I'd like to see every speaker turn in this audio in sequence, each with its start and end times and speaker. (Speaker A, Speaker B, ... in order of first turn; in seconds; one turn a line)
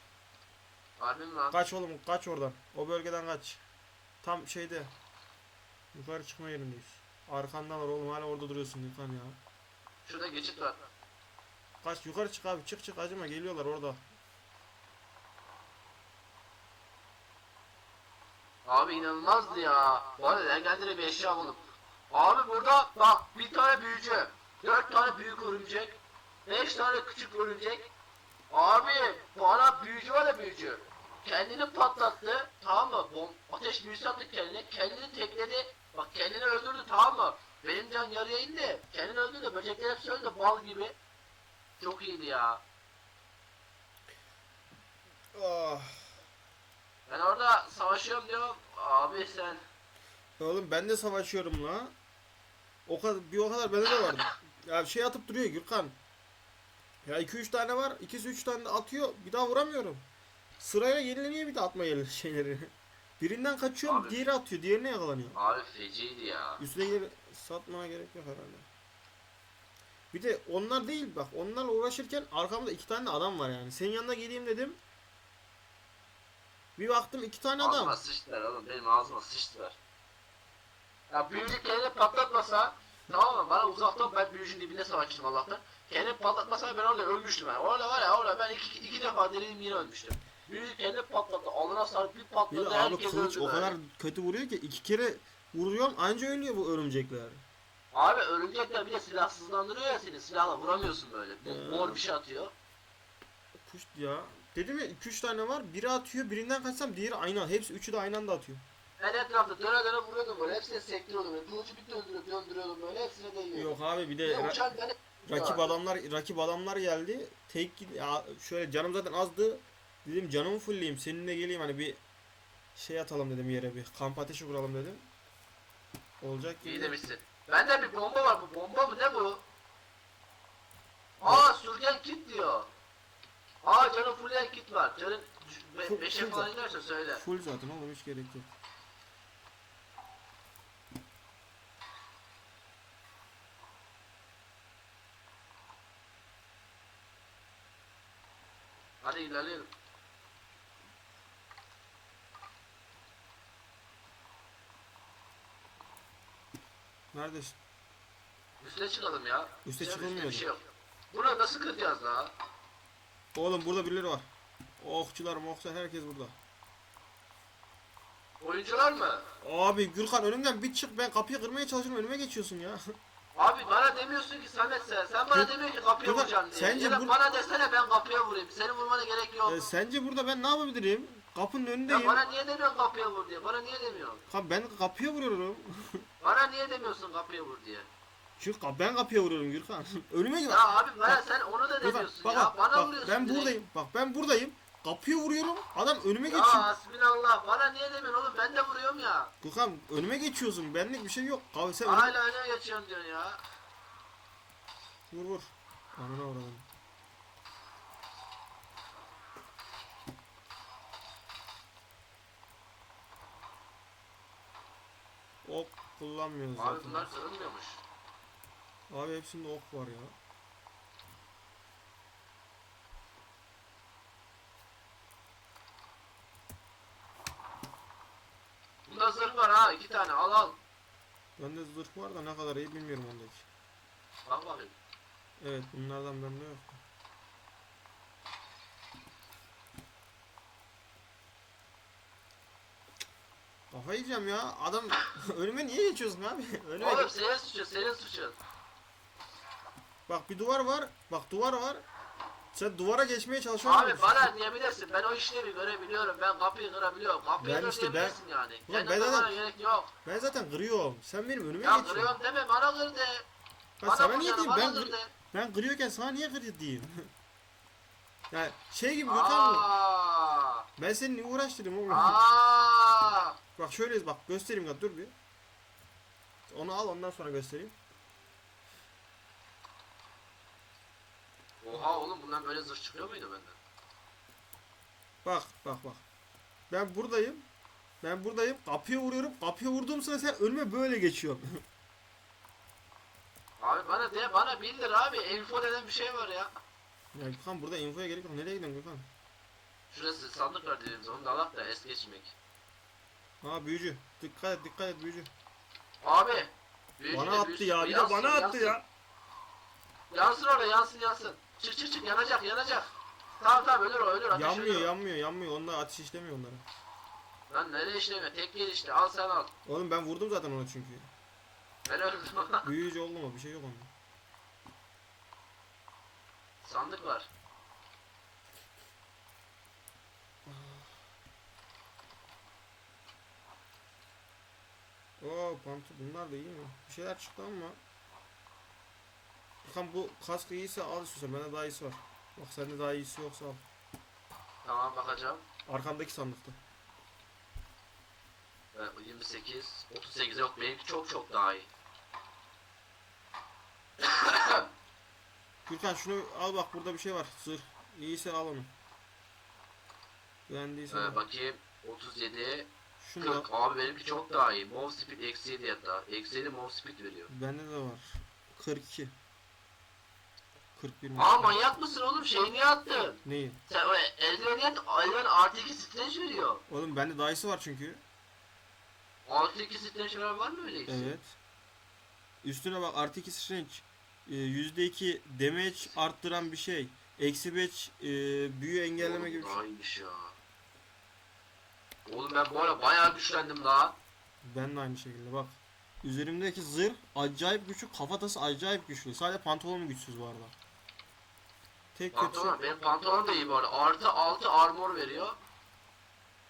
Speaker A: 1.0-1.6
Speaker B: 1.5-3.6
Speaker B: 4.2-4.9
Speaker B: 5.9-9.4
Speaker A: 10.0-10.8
Speaker B: 11.8-14.0
Speaker A: 18.6-27.9
Speaker A: 28.5-40.9
Speaker A: 41.8-42.6
Speaker B: 45.3-46.1
Speaker A: 47.1-49.6
Speaker B: 50.4-51.9
Speaker B: 52.9-56.0
Speaker B: 57.0-60.0
Speaker B: 60.6-65.4
Speaker A: 63.8-64.2
Speaker A: 65.3-66.6
Speaker B: 66.6-68.7
Speaker B: 70.1-74.8
Speaker B: 76.8-78.0
Speaker A: 77.6-79.8
Speaker A: 81.1-93.8
Speaker B: 92.5-97.4
Speaker A: 97.9-102.5
Speaker B: 101.4-102.0
Speaker B: 103.6-108.6
Speaker A: 109.0-115.8
Speaker B: 113.5-114.6
Speaker B: 115.3-122.0
Speaker B: 122.7-125.0
Speaker B: 126.2-127.0
Speaker A: 126.6-129.4
Speaker A: 131.2-132.7
Speaker B: 131.2-131.6
Speaker A: 133.6-137.2
Speaker B: 135.8-136.5
Speaker B: 137.1-138.4
Speaker A: 149.0-149.7
Speaker B: 157.1-157.6
Speaker A: 158.6-162.3
Speaker B: 159.6-160.5
Speaker B: 163.3-164.2
Speaker B: 164.8-166.3
Speaker A: 168.4-169.2
Speaker B: 169.4-172.8
Speaker A: 173.3-179.7
Speaker B: 176.0-177.2
Speaker B: 179.4-182.2
Speaker A: 181.8-184.2
Speaker B: 184.3-186.0
Speaker A: 186.2-187.9
Speaker B: 188.4-191.2
Speaker A: 190.5-193.6
Speaker B: 191.8-196.7
Speaker A: 196.3-199.3
Speaker B: 199.4-202.1
Speaker A: 201.8-203.4
Speaker B: 205.1-206.7
Speaker B: 215.4-217.1
Speaker A: 216.6-217.8
Speaker B: 218.9-220.1
Speaker A: 228.8-230.6
Speaker B: 231.4-233.5
Speaker A: 234.2-234.7
Speaker B: 235.4-236.8
Speaker B: 243.7-247.1
Speaker A: 246.8-248.3
Speaker B: 250.1-251.8
Speaker B: 252.5-254.3
Speaker A: 253.6-259.9
Speaker B: 257.4-259.4
Speaker B: 260.0-262.1
Speaker A: 261.6-263.2
Speaker B: 263.8-267.1
Speaker A: 263.8-265.1
Speaker B: 268.3-269.6
Speaker A: 269.1-270.6
Speaker B: 270.8-272.2
Speaker A: 271.9-273.4
Speaker B: 273.6-275.1
Speaker B: 276.5-277.7
Speaker A: 281.6-283.6
Speaker B: 285.2-286.0
Speaker B: 286.7-287.5
Speaker B: 288.0-291.6
Speaker A: 293.6-296.5
Speaker B: 297.1-299.1
Speaker A: 299.9-302.3
Speaker B: 303.4-305.3
Speaker A: 306.0-308.8
Speaker B: 307.1-308.8
Speaker A: 310.1-314.9
Speaker B: 314.3-316.6
Speaker A: 317.5-319.5
Speaker B: 319.6-321.0
Speaker A: 321.9-322.6
Speaker B: 322.6-323.9
Speaker A: 326.6-327.3
Speaker B: 330.4-330.9
Speaker B: 335.2-337.8
Speaker B: 339.6-343.6
Speaker A: 344.6-345.4
Speaker B: 345.6-346.6
Speaker A: 348.7-351.7
Speaker A: 354.0-354.6
Speaker B: 355.6-358.7
Speaker B: 360.5-361.2
Speaker A: 360.9-367.3
Speaker B: 363.0-363.5
Speaker B: 367.3-369.1
Speaker B: 370.8-371.5
Speaker A: 371.1-376.6
Speaker B: 373.2-373.6
Speaker B: 376.7-378.0
Speaker A: 379.2-381.1
Speaker B: 380.9-381.4
Speaker B: 382.4-389.6
Speaker A: 389.0-390.3
Speaker A: 392.1-393.9
Speaker B: 394.4-400.5
Speaker B: 401.9-402.6
Speaker A: 402.1-405.4